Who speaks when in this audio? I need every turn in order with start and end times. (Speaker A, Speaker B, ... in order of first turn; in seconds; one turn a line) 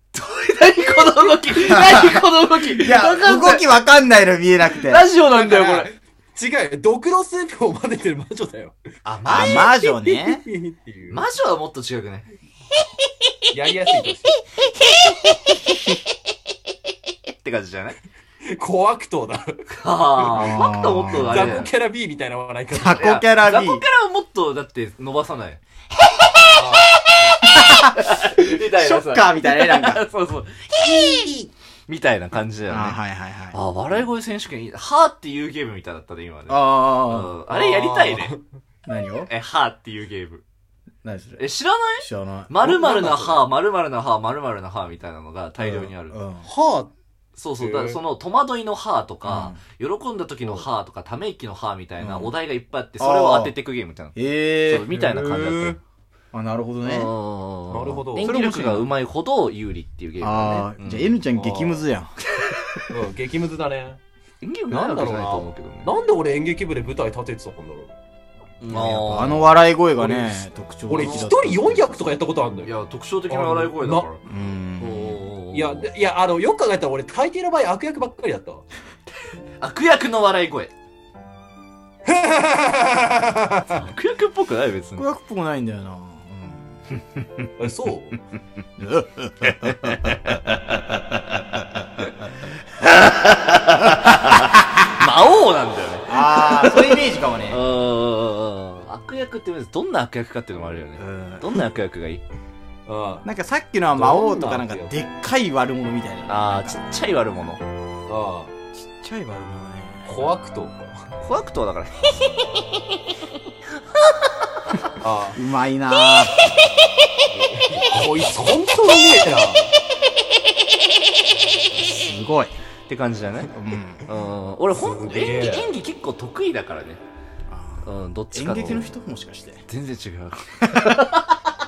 Speaker A: 0.1-3.7
Speaker B: 1.7-5.0
Speaker A: 4.8-5.9
Speaker C: 5.2-8.8
Speaker A: 9.1-9.7
Speaker B: 9.2-10.4
Speaker C: 9.4-11.2
Speaker A: 11.1-12.3
Speaker C: 13.5-14.4
Speaker A: 17.4-18.0
Speaker C: 18.4-19.6
Speaker A: 19.8-21.7
Speaker C: 20.3-23.1
Speaker B: 20.3-21.6
Speaker B: 22.7-23.8
Speaker A: 23.0-25.6
Speaker C: 26.5-26.9
Speaker A: 27.3-33.0
Speaker B: 27.5-30.0
Speaker B: 32.7-33.6
Speaker A: 33.5-38.3
Speaker B: 36.5-37.3
Speaker C: 37.5-38.4
Speaker B: 38.9-39.3
Speaker A: 39.3-40.4
Speaker B: 41.0-41.4
Speaker A: 41.4-46.2
Speaker B: 42.0-42.5
Speaker C: 42.6-43.5
Speaker B: 45.6-46.5
Speaker C: 46.4-46.9
Speaker A: 47.4-55.8
Speaker C: 47.6-48.0
Speaker B: 49.2-49.6
Speaker B: 52.0-52.3
Speaker B: 53.0-53.5
Speaker B: 54.1-54.9
Speaker C: 54.9-55.8
Speaker B: 56.3-57.1
Speaker A: 56.8-61.2
Speaker C: 57.7-58.3
Speaker B: 58.2-58.9
Speaker B: 60.2-62.1
Speaker C: 61.4-61.8
Speaker C: 62.9-64.0
Speaker A: 64.4-65.9
Speaker C: 64.7-67.9
Speaker A: 68.6-69.5
Speaker B: 68.7-72.1
Speaker C: 70.0-72.7
Speaker A: 70.9-71.3
Speaker A: 72.6-74.2
Speaker C: 73.3-74.1
Speaker B: 74.3-75.3
Speaker A: 74.8-75.9
Speaker C: 75.5-78.6
Speaker A: 79.6-80.7
Speaker C: 82.1-83.7
Speaker A: 83.7-85.1
Speaker B: 85.0-86.7
Speaker C: 87.6-88.2
Speaker B: 88.8-89.9
Speaker A: 89.4-91.3
Speaker A: 92.8-102.2
Speaker B: 96.1-97.6
Speaker B: 101.0-101.6
Speaker C: 102.9-103.2
Speaker B: 103.2-106.8
Speaker C: 103.9-104.9
Speaker A: 106.3-107.6
Speaker C: 108.1-108.5
Speaker B: 108.7-110.1
Speaker C: 110.1-111.0
Speaker A: 111.2-112.1
Speaker C: 115.0-115.4
Speaker B: 115.3-116.3
Speaker C: 117.2-119.7
Speaker B: 121.8-122.5
Speaker A: 122.9-123.5
Speaker B: 123.5-124.0
Speaker A: 124.1-127.0
Speaker C: 124.7-125.7
Speaker B: 127.5-129.7
Speaker A: 127.8-128.9
Speaker A: 129.7-131.3
Speaker B: 130.7-131.0